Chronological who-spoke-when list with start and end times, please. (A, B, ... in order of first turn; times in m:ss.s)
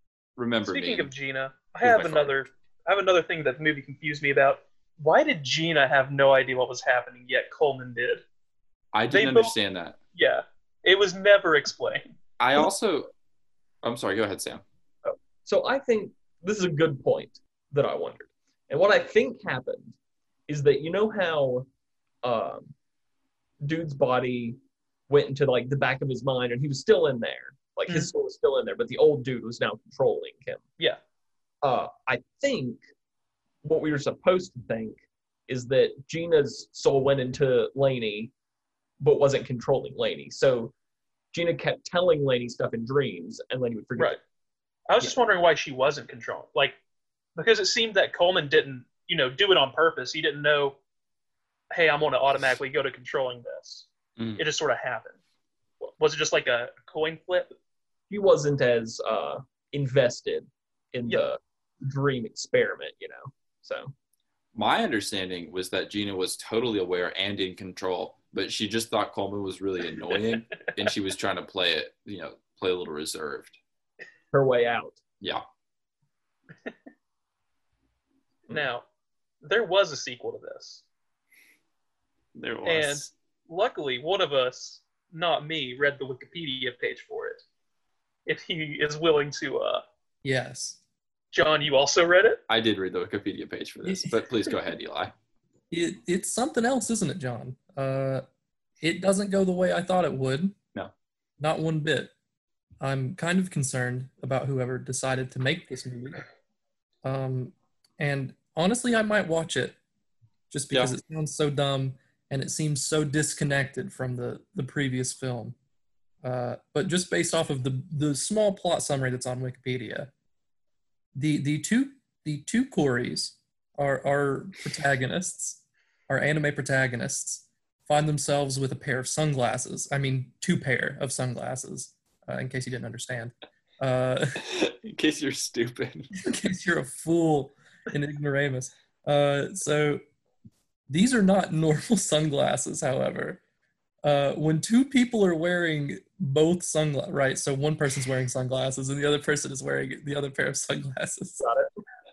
0:00.4-0:01.1 A
0:00.6-0:08.2 B
0:01.8-0:02.5 A
0:08.9-0:10.0 A
0:09.1-0:09.5 B
0:10.1-0:12.1 B
0:12.4-0:13.1 A
0:13.8-0:14.6 A
0:15.0-0:19.9 C
0:20.5-0:21.6 C
0:22.2-0:22.7 C
0:23.6-0:24.6 C
0:25.1-0:30.6 C
0:31.6-0:32.8 C
0:33.6-0:35.0 C
0:35.5-0:38.3 C
0:39.0-0:40.7 C
0:41.3-0:44.2 C
0:44.9-0:46.8 B
0:47.4-0:50.8 B
0:51.7-0:55.2 B
0:54.2-0:54.4 A
0:55.8-0:57.5 B
0:58.1-1:03.9 C
1:04.5-1:13.6 A
1:14.3-1:15.0 C
1:18.5-1:18.8 B
1:19.4-1:20.8 B
1:22.4-1:23.1 A
1:22.6-1:27.4 B
1:28.2-1:29.8 B
1:30.2-1:30.8 D
1:31.3-1:32.4 B
1:32.5-1:35.1 A
1:35.7-1:38.2 D
1:38.8-1:40.5 D
1:41.4-1:42.1 D
1:42.8-1:46.2 D
1:47.0-1:49.8 D
1:50.5-1:55.5 D
1:56.2-2:00.1 D
2:01.1-2:14.4 D
2:14.5-2:16.1 A
2:16.2-2:20.0 D
2:20.9-2:23.4 D
2:24.0-2:31.4 D
2:31.4-2:31.7 C